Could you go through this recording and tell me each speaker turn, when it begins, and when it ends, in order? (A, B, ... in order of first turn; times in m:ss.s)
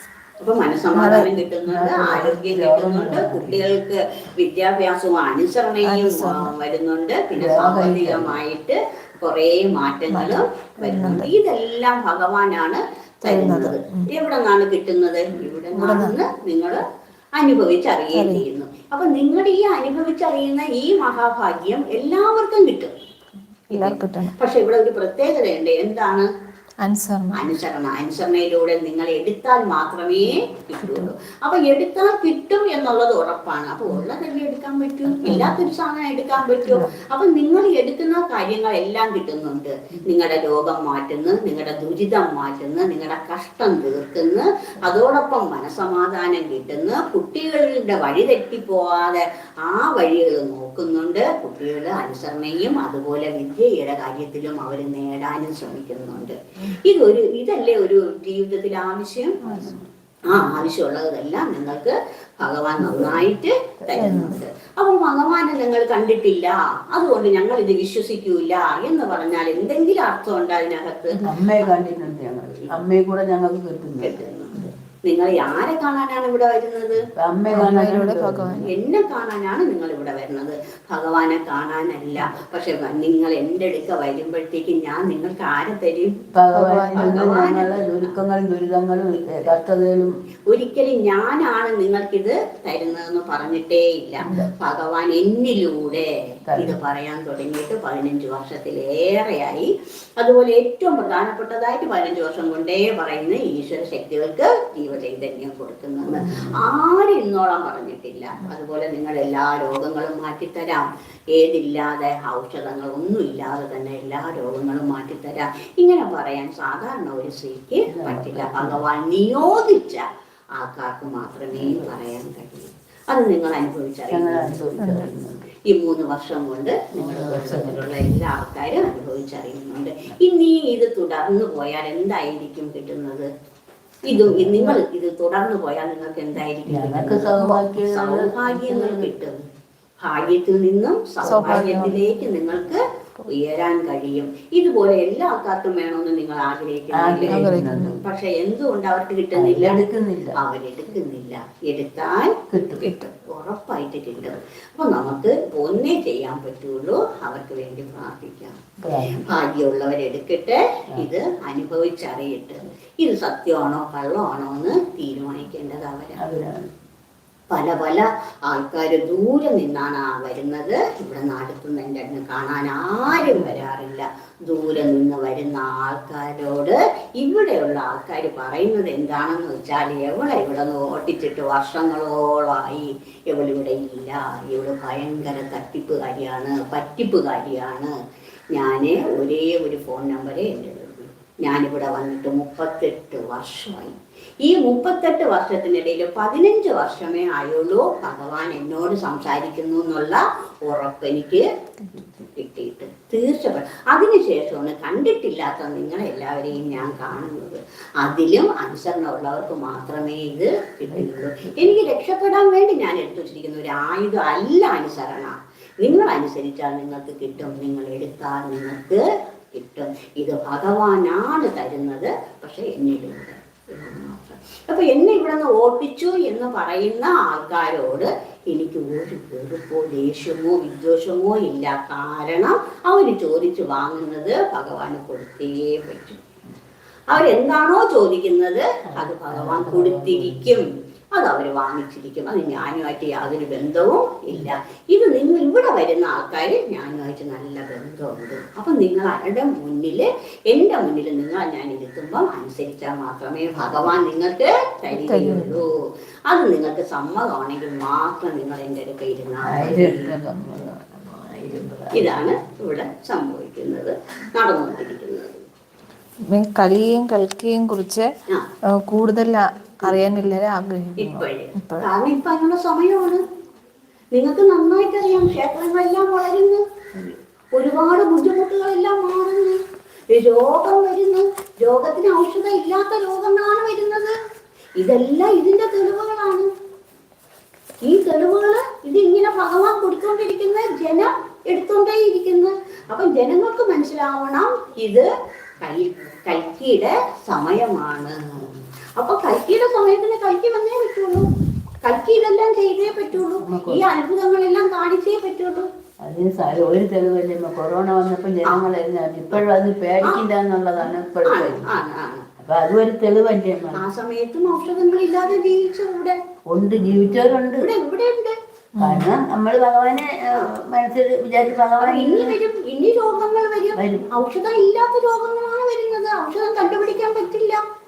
0:00.4-0:22.9 A
0:00.9-0:01.3 B
0:01.6-0:03.7 C
0:05.8-0:06.5 B
0:07.4-0:08.3 B
0:07.4-0:07.9 C
0:10.1-0:11.3 B
0:13.2-0:14.1 B
0:15.7-0:16.2 B
0:18.1-0:18.4 B
0:23.7-0:26.3 A
0:23.7-0:24.3 B
0:26.8-0:27.5 B
0:27.3-0:59.4 A
0:35.2-0:35.5 B
0:59.4-0:59.9 C
1:00.2-1:11.8 A
1:02.8-1:03.2 C
1:03.8-1:04.3 C
1:04.0-1:04.3 B
1:11.1-1:14.7 C
1:14.0-1:17.1 A
1:17.2-1:18.7 C
1:17.5-1:18.7 B
1:18.6-1:26.3 A
1:26.3-1:30.1 C
1:26.5-1:27.3 B
1:26.9-1:28.1 A
1:30.5-2:04.8 A
1:34.2-1:34.5 C
1:36.5-1:36.8 C
1:46.1-1:46.7 C
1:57.9-1:58.8 C
2:01.5-2:02.0 C
2:04.1-2:05.5 C
2:04.8-2:05.1 B
2:05.6-2:13.3 A
2:07.0-2:07.9 C
2:14.0-2:19.4 A
2:14.2-2:14.7 C
2:16.7-2:19.2 C
2:20.0-2:46.2 A
2:21.2-2:21.8 C
2:21.2-2:22.0 B
2:26.9-2:28.0 C
2:27.3-2:28.0 B
2:29.3-2:30.4 C
2:32.5-2:33.0 C
2:38.8-2:39.3 C
2:46.2-2:46.7 C
2:47.5-3:07.9 A
2:53.1-2:53.6 C
3:08.5-3:21.5 A
3:22.2-3:56.2 A
3:30.9-3:31.8 C
3:57.1-4:15.7 A
3:58.9-4:00.6 C
4:14.9-4:15.6 B
4:16.3-4:20.1 A
4:19.4-4:22.2 C
4:21.9-4:25.4 A
4:26.3-4:28.1 B
4:28.7-4:31.9 B
4:31.0-4:33.2 A
4:34.1-4:36.6 A
4:37.5-4:44.2 A
4:44.8-4:46.5 A
4:47.8-5:01.3 A
5:01.8-5:05.7 A
5:03.4-5:03.9 C
5:06.0-5:11.7 C
5:11.2-5:12.3 A
5:12.4-5:13.8 C
5:13.7-5:16.2 A
5:16.5-5:17.7 C
5:17.6-5:18.4 A
5:18.8-5:19.1 B
5:18.8-5:22.4 C
5:21.8-5:27.6 A
5:23.8-5:24.1 C